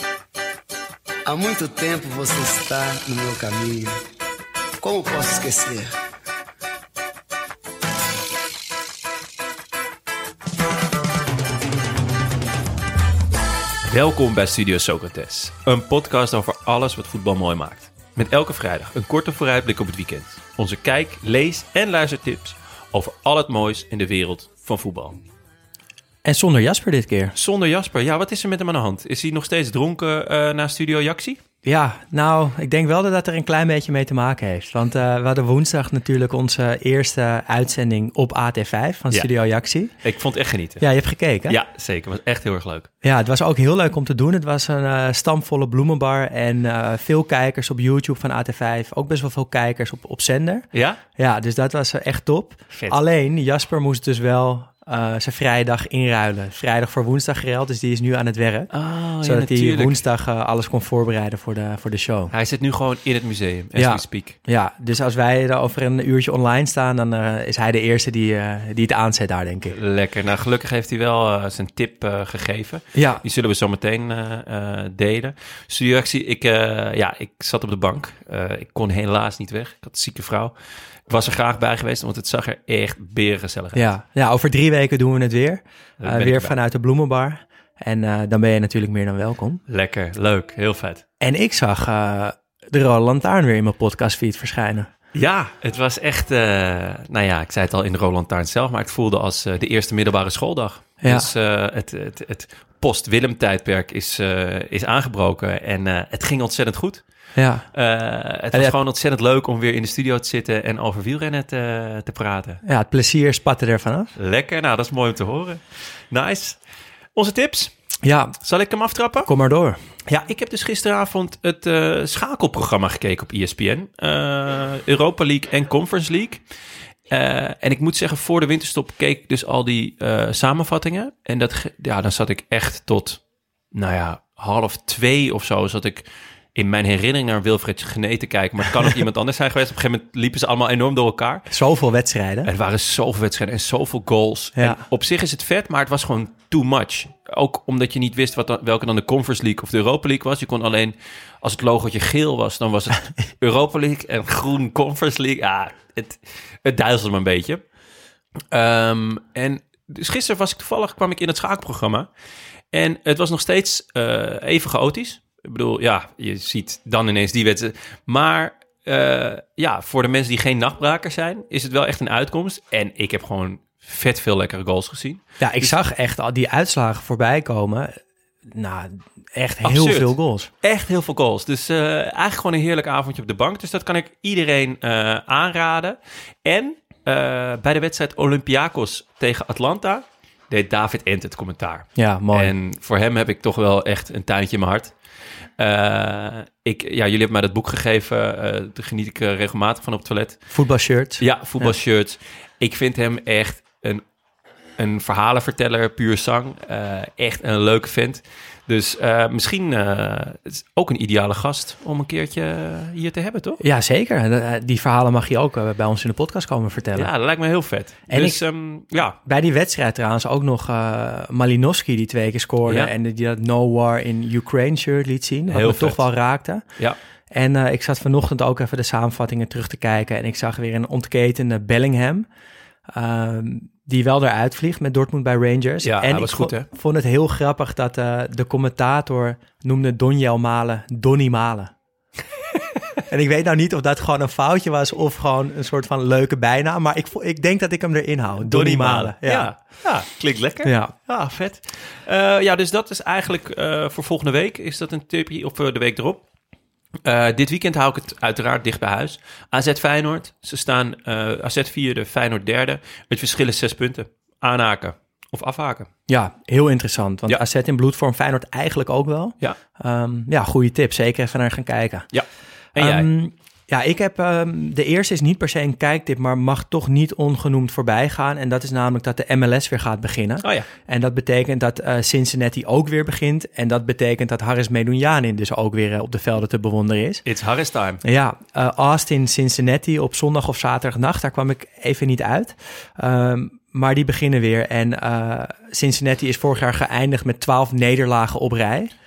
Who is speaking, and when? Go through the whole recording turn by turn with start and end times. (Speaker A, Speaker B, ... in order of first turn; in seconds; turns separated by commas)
Speaker A: 1.2-4.0, Speaker A: 4.8-5.9, Speaker B: 13.9-25.2, Speaker C: 26.2-27.3, Speaker B: 27.3-31.4, Speaker C: 31.6-39.9, Speaker B: 40.0-40.9, Speaker C: 40.8-41.6, Speaker B: 41.5-42.9, Speaker C: 43.0-50.6, Speaker B: 50.7-51.0, Speaker C: 51.2-62.3, Speaker B: 52.7-53.0, Speaker B: 58.7-60.0, Speaker B: 62.3-64.4, Speaker C: 63.7-69.8, Speaker B: 69.7-80.5, Speaker C: 72.9-73.2, Speaker B: 81.1-83.9, Speaker C: 83.7-89.6, Speaker B: 86.0-86.5, Speaker B: 89.7-91.0, Speaker C: 91.2-94.9, Speaker B: 95.1-107.0, Speaker C: 101.0-101.3, Speaker C: 107.3-107.7, Speaker B: 107.7-112.6, Speaker C: 112.6-114.1, Speaker B: 114.2-116.6, Speaker B: 117.1-117.7, Speaker C: 118.0-118.3, Speaker B: 118.4-119.3, Speaker C: 119.2-119.8, Speaker B: 120.1-126.4, Speaker B: 127.1-133.2, Speaker B: 133.7-141.5, Speaker C: 141.5-142.5, Speaker B: 142.4-157.6, Speaker C: 144.6-144.8, Speaker B: 158.5-162.1, Speaker B: 162.7-175.8, Speaker C: 175.4-177.9, Speaker C: 178.5-180.5, Speaker B: 179.6-194.9, Speaker C: 191.9-192.5, Speaker B: 195.6-200.4, Speaker C: 200.5-201.7, Speaker B: 201.2-204.0, Speaker B: 204.8-213.6, Speaker C: 213.6-217.1, Speaker B: 216.9-219.2, Speaker C: 218.1-218.4, Speaker C: 219.2-226.6, Speaker B: 222.7-222.9, Speaker B: 225.5-226.0, Speaker C: 227.3-232.2, Speaker C: 232.9-241.7, Speaker B: 235.8-236.7, Speaker C: 243.1-249.5, Speaker B: 248.4-256.2, Speaker C: 250.6-250.9, Speaker B: 257.0-265.9, Speaker C: 266.1-272.1, Speaker B: 272.1-273.1, Speaker C: 272.8-287.2, Speaker B: 280.4-280.7, Speaker B: 287.2-288.0, Speaker C: 288.0-298.9